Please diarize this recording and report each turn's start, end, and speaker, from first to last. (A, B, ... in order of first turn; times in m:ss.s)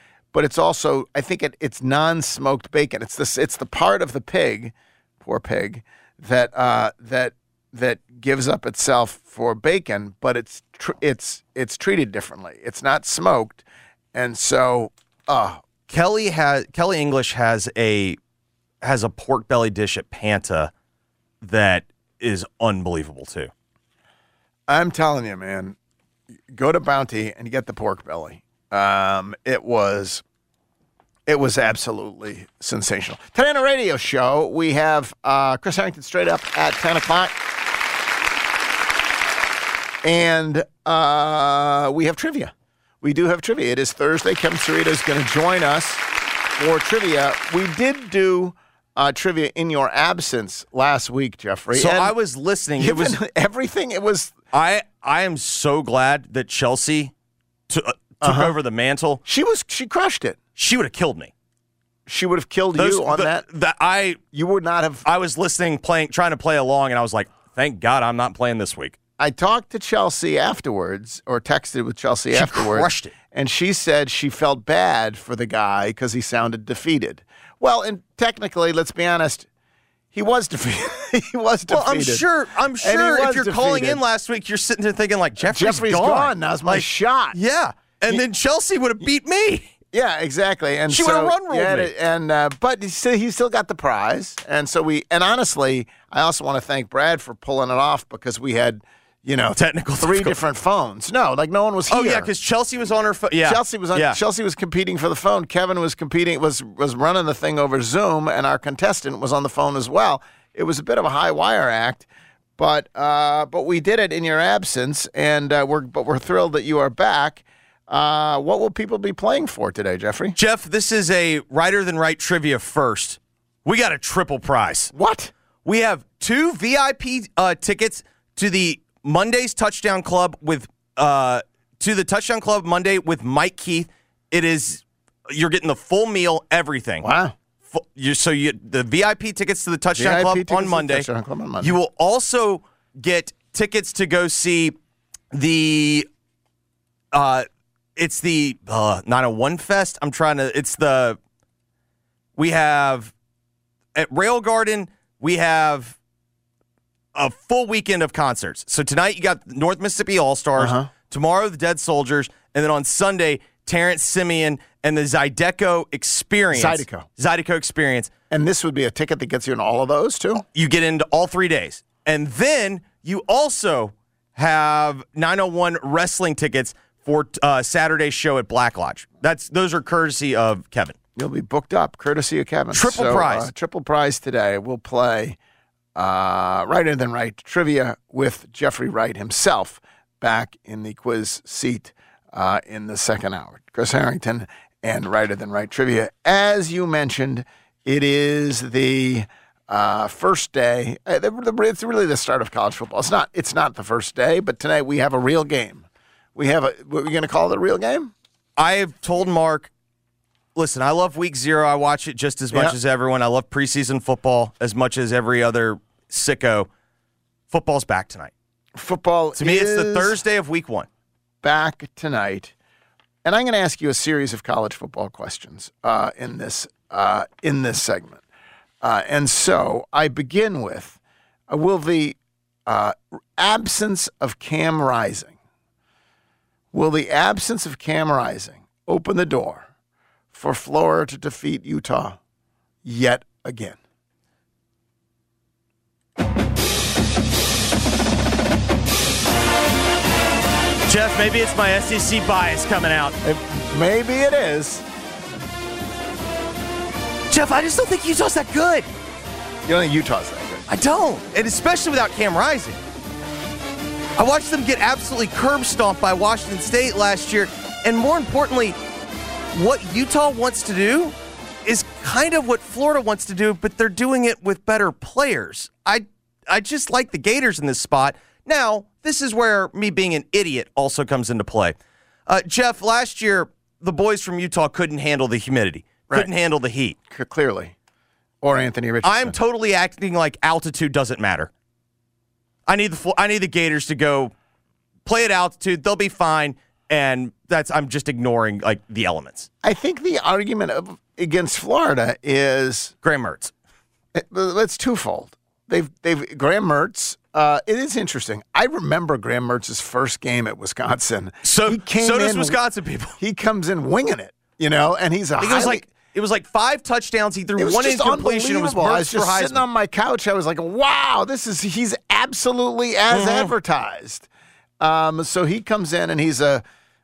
0:00.3-0:13.6 A
0:14.1-0:15.6 A
0:15.9-0:18.2 B
0:18.8-0:20.7 B
0:21.4-0:23.5 B
0:24.7-0:25.8 A
0:26.5-0:30.2 A
0:31.3-0:37.4 A
0:40.0-0:46.0 A
0:46.6-0:52.1 A
0:51.7-0:53.2 B
0:52.8-0:54.3 A
0:54.5-0:57.1 B
0:57.7-0:59.2 B
0:58.2-0:58.6 A
0:59.2-1:00.4 A
1:00.6-1:01.3 B
1:02.1-1:03.4 A
1:02.7-1:04.2 B
1:04.3-1:05.0 A
1:05.0-1:09.0 B
1:09.2-1:19.5 A
1:12.3-1:13.1 B
1:20.1-1:22.2 A
1:21.7-1:29.7 B
1:22.8-1:24.0 A
1:25.4-1:27.4 A
1:29.9-1:42.3 A
1:30.9-1:31.9 B
1:39.6-1:40.4 B
1:41.9-1:44.2 B
1:43.4-2:00.4 A
2:00.4-2:04.9 B
2:04.9-2:05.3 A
2:05.6-2:17.0 B
2:17.0-2:17.3 A
2:17.7-2:21.1 B
2:19.9-2:21.7 A
2:21.6-2:24.8 B
2:25.3-2:26.1 B
2:27.1-2:31.2 B
2:32.4-2:33.1 B
2:33.9-2:36.0 B
2:37.1-2:48.1 B
2:40.6-2:40.9 A
2:46.5-2:47.1 A
2:48.3-2:50.4 A
2:50.5-3:01.0 B
3:01.2-3:05.4 A
3:02.7-3:03.5 B
3:05.9-3:28.1 A
3:28.6-3:29.7 B
3:30.5-3:36.7 B
3:37.5-3:38.3 B
3:38.7-3:40.2 A
3:39.4-3:40.9 B
3:41.4-3:42.5 A
3:43.2-3:48.2 A
3:48.8-3:51.0 A
3:51.5-3:55.4 A
3:56.7-3:59.7 A
4:00.3-4:02.2 A
4:02.8-4:03.8 A
4:10.9-4:13.2 B
4:13.2-4:14.8 A
4:17.3-4:18.9 B
4:19.6-4:20.6 A
4:20.7-4:22.8 B
4:24.2-4:28.8 B
4:29.5-4:41.8 B
4:42.3-4:47.0 B
4:47.1-4:47.7 A
4:48.4-4:49.3 A
4:49.0-4:51.5 B
4:52.7-4:54.3 B
4:55.0-4:59.5 B
4:59.6-5:02.9 A
5:03.0-5:03.5 B
5:04.1-5:12.6 A
5:11.4-5:13.2 B
5:13.2-5:15.8 A
5:15.4-5:19.6 B
5:17.6-5:24.3 A
5:23.1-5:23.5 B
5:24.8-5:26.6 A